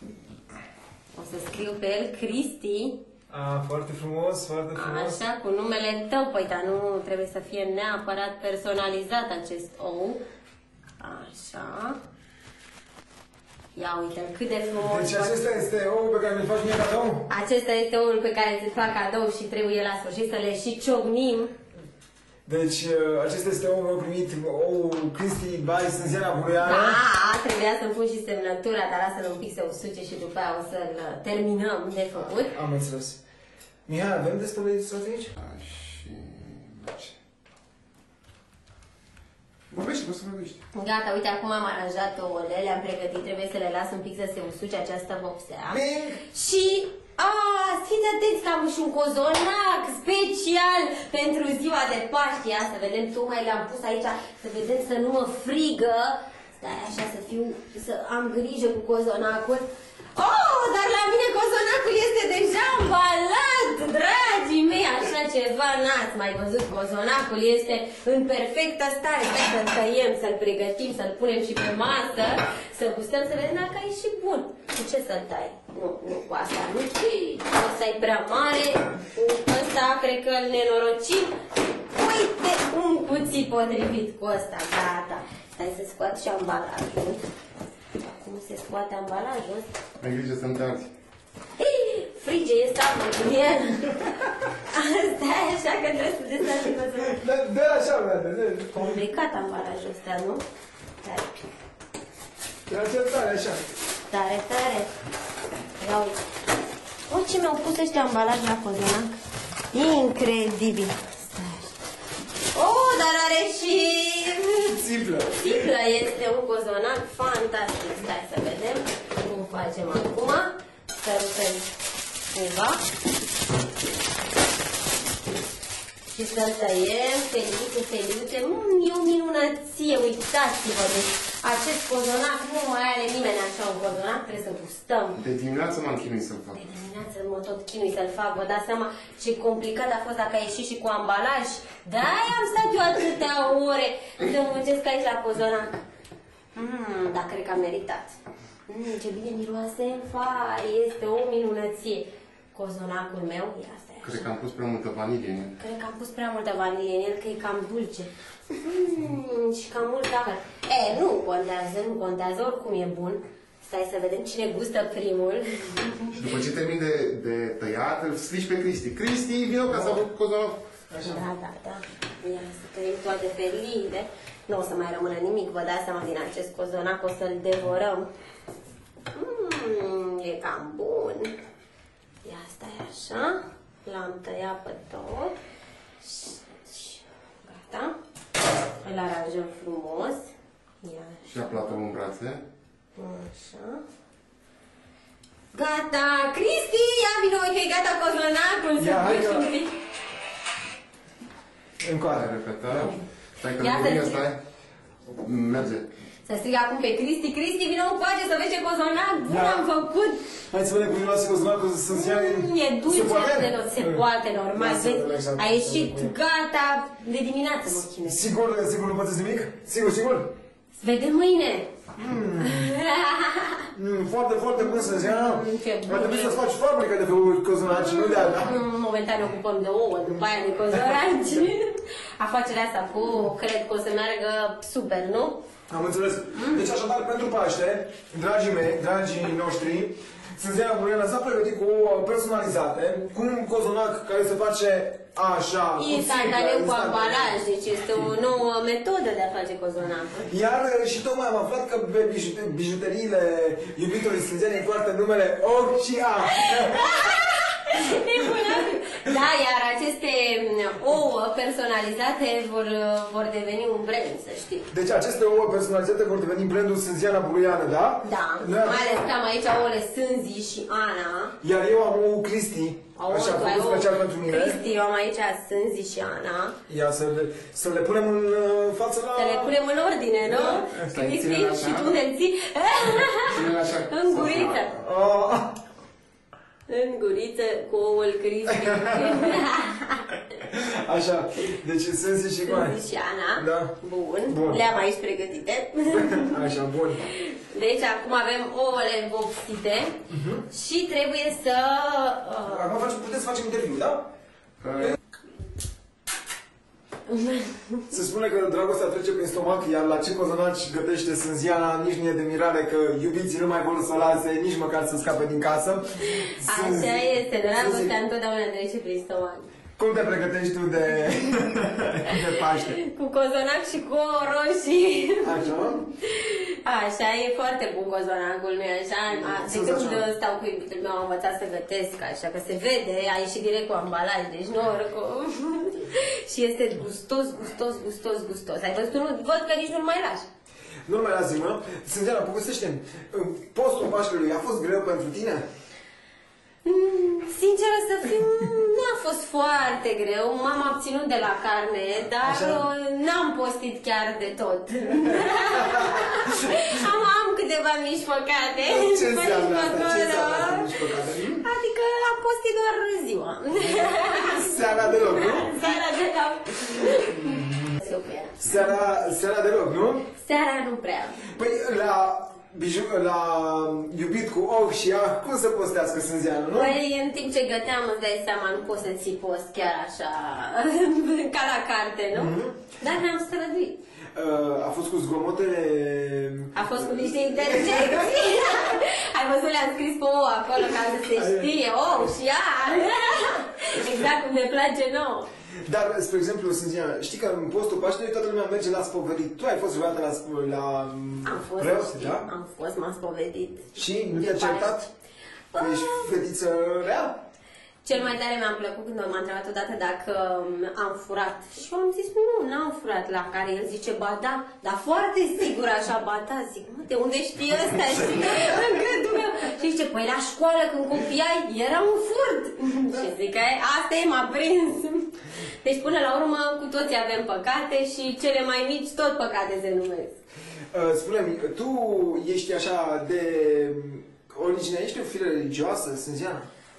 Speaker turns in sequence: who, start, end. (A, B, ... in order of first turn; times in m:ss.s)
0:01.1-0:03.0 A
0:03.3-0:05.2 B
0:04.7-0:10.2 A
0:11.0-0:12.0 A
0:13.7-0:15.5 A
0:14.8-0:17.3 B
0:17.3-0:21.5 A
0:22.4-0:27.0 B
0:26.6-0:32.5 A
0:32.1-0:33.2 B
0:33.9-0:35.3 B
0:35.4-0:37.2 C
0:39.7-0:40.6 C
0:40.7-1:21.4 A
0:45.7-0:46.2 B
1:21.9-1:27.3 A
1:28.0-1:29.7 A
1:30.0-1:30.9 C
1:31.6-1:37.2 A
1:37.0-1:39.0 B
1:38.7-1:40.4 A
1:41.0-1:41.3 A
1:42.7-1:43.6 B
1:44.1-1:44.9 A
1:45.8-1:46.2 A
1:47.1-1:49.2 A
1:49.7-1:51.8 A
1:52.5-1:54.7 A
1:54.7-1:55.7 B
1:55.4-2:01.7 A
2:02.3-2:02.8 A
2:06.1-2:15.2 A
2:15.2-2:16.6 C
2:16.5-2:25.8 A
2:26.5-2:28.1 A
2:28.7-2:34.3 A
2:34.0-2:35.6 C
2:35.6-2:46.1 A
2:46.1-2:50.7 C
2:49.7-2:50.0 B
2:50.9-2:51.2 B
2:51.0-2:58.1 A
2:59.1-3:01.4 A
3:02.2-3:05.4 A
3:06.0-3:07.9 A
3:08.8-3:10.3 A
3:10.8-3:11.2 A
3:11.2-3:12.4 C
3:13.0-3:13.8 A
3:15.5-3:19.7 A
3:18.8-3:19.5 B
3:21.8-3:22.3 B
3:22.1-3:24.4 C
3:23.5-3:24.2 A
3:25.1-3:25.9 C
3:26.2-3:30.3 A
3:29.3-3:29.7 B
3:30.5-3:36.2 B
3:31.9-3:38.2 A
3:38.0-3:40.3 B
3:40.8-3:41.7 A
3:42.0-3:42.8 B
3:42.4-3:43.7 A
3:43.7-3:48.6 B
3:44.6-3:46.4 A
3:48.0-3:55.4 A
3:50.7-3:51.0 B
3:55.7-4:07.4 B
3:56.4-3:56.6 A
4:05.8-4:10.3 A
4:10.3-4:17.1 B
4:16.3-4:24.7 A
4:24.7-4:29.0 B
4:28.0-4:31.4 A
4:31.4-4:34.6 B
4:33.0-4:36.6 A
4:36.7-4:39.6 B
4:39.1-4:44.7 A
4:40.4-4:40.9 B
4:40.8-4:42.0 C
4:43.2-4:44.7 C
4:44.8-4:45.6 B
4:46.7-4:50.1 A
4:48.5-4:49.4 B
4:50.5-4:52.8 B
4:52.4-4:56.4 A
4:53.4-4:53.8 B
4:54.3-4:54.6 B
4:55.9-4:57.1 B
4:57.1-5:00.0 A
5:00.1-5:00.4 B
5:00.5-5:02.7 A
5:02.4-5:04.1 B
5:04.6-5:05.0 C
5:07.1-5:07.9 A
5:07.9-5:18.0 B
5:16.4-5:19.5 A
5:19.8-5:22.8 B
5:22.1-5:40.3 A
5:25.2-5:25.8 B
5:29.1-5:30.0 B
5:40.8-5:45.4 B
5:46.6-6:00.8 A
5:52.2-5:52.6 B
5:55.1-5:56.4 B
5:58.6-6:01.4 B
6:01.4-6:08.7 A
6:03.6-6:05.6 B
6:06.8-6:07.8 B
6:08.4-6:10.1 B
6:10.2-6:11.3 A
6:11.2-6:16.8 B
6:16.5-6:23.8 A
6:22.1-6:22.7 B
6:24.1-6:28.7 B
6:26.5-6:35.3 A
6:31.1-6:32.1 B
6:35.6-6:42.3 B
6:41.2-6:44.9 A
6:43.7-6:44.9 B
6:45.5-6:46.1 A
6:45.6-6:47.2 B
6:47.8-7:10.2 A
7:10.7-7:16.5 B